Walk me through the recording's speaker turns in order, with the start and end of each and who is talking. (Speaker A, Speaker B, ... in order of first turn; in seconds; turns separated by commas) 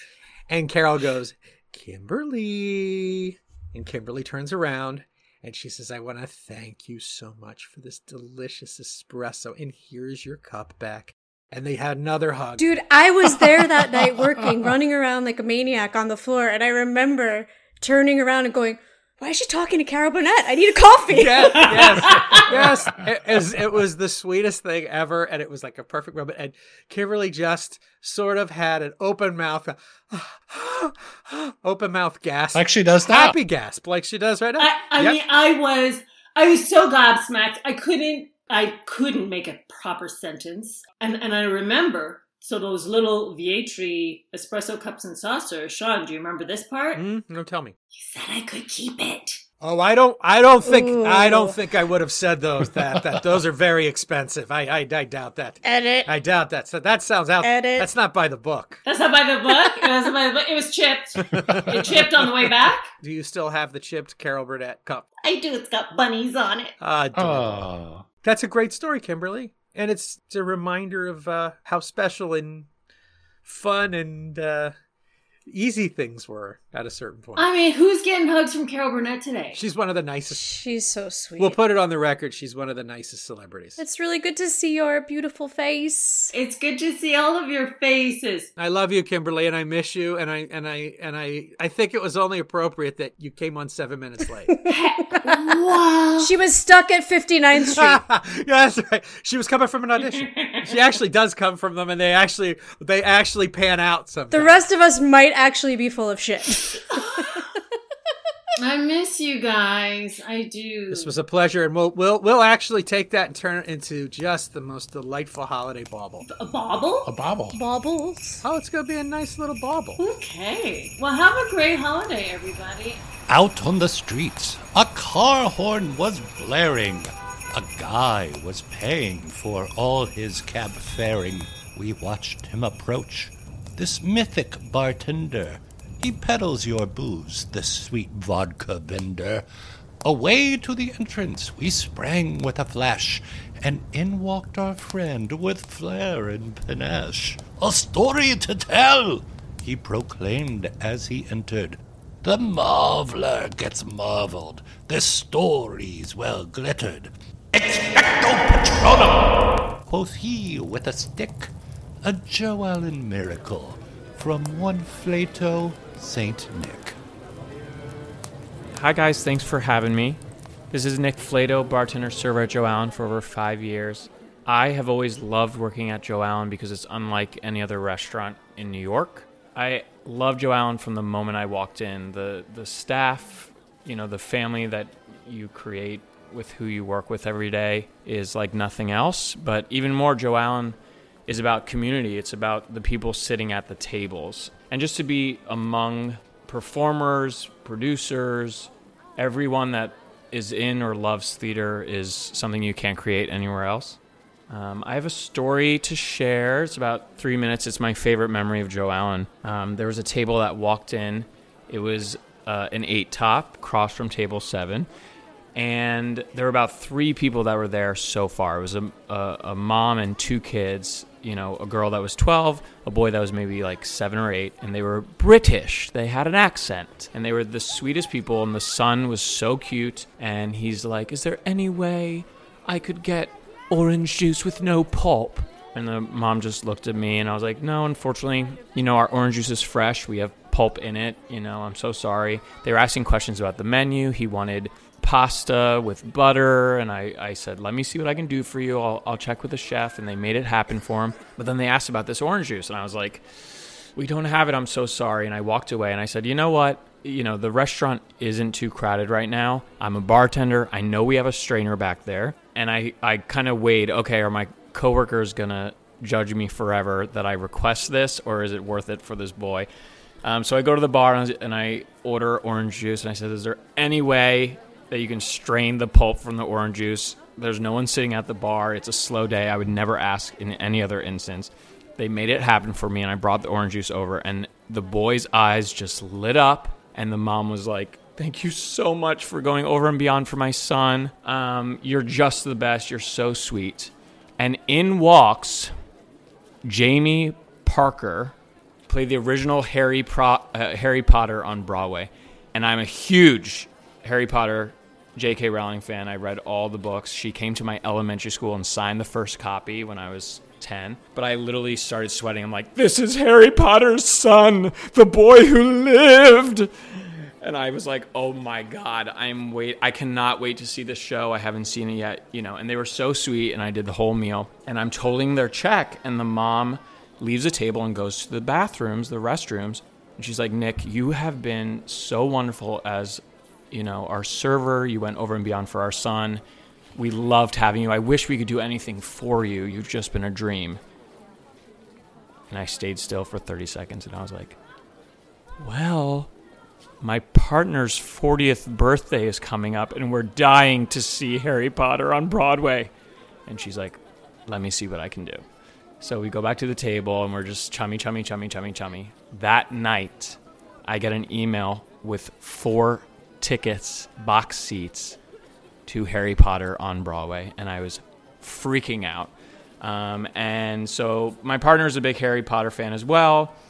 Speaker A: 0.5-12.7, Speaker B: 12.6-22.6, Speaker A: 21.1-35.2, Speaker C: 21.6-22.5, Speaker D: 32.5-33.4, Speaker C: 34.6-47.0, Speaker A: 46.9-47.7, Speaker C: 47.9-49.4, Speaker A: 49.6-58.8, Speaker B: 50.6-51.6, Speaker B: 55.6-56.1, Speaker B: 57.4-57.9, Speaker C: 58.8-62.9, Speaker A: 61.2-62.0, Speaker A: 63.0-65.1, Speaker C: 65.2-66.7, Speaker A: 66.8-67.7, Speaker D: 67.1-68.0, Speaker A: 68.2-72.7, Speaker A: 73.4-74.7, Speaker A: 75.5-77.5, Speaker C: 77.3-79.6, Speaker A: 79.5-80.5, Speaker B: 80.3-81.6, Speaker A: 81.4-83.8, Speaker B: 83.8-86.3, Speaker C: 86.3-88.5, Speaker A: 88.5-94.6, Speaker C: 94.7-96.3, Speaker B: 96.2-98.0, Speaker A: 97.7-104.6, Speaker C: 100.0-100.8, Speaker B: 104.3-107.4, Speaker C: 107.0-107.2, Speaker C: 108.6-111.1, Speaker A: 110.9-116.2, Speaker C: 116.2-117.1, Speaker D: 117.0-117.6, Speaker B: 117.5-118.4, Speaker A: 118.4-120.0, Speaker C: 120.0-123.0, Speaker E: 123.3-139.4, Speaker E: 140.0-161.5, Speaker E: 162.0-167.0, Speaker F: 168.7-170.2, Speaker F: 170.7-190.8, Speaker F: 191.3-214.9, Speaker F: 215.5-269.7, Speaker F: 270.2-295.7, Speaker F: 296.6-298.3, Speaker F: 298.9-336.4, Speaker F: 336.9-340.8, Speaker F: 342.5-344.6, Speaker F: 345.6-346.3, Speaker F: 347.0-352.9, Speaker F: 353.4-355.4, Speaker F: 356.0-365.2, Speaker F: 365.9-373.5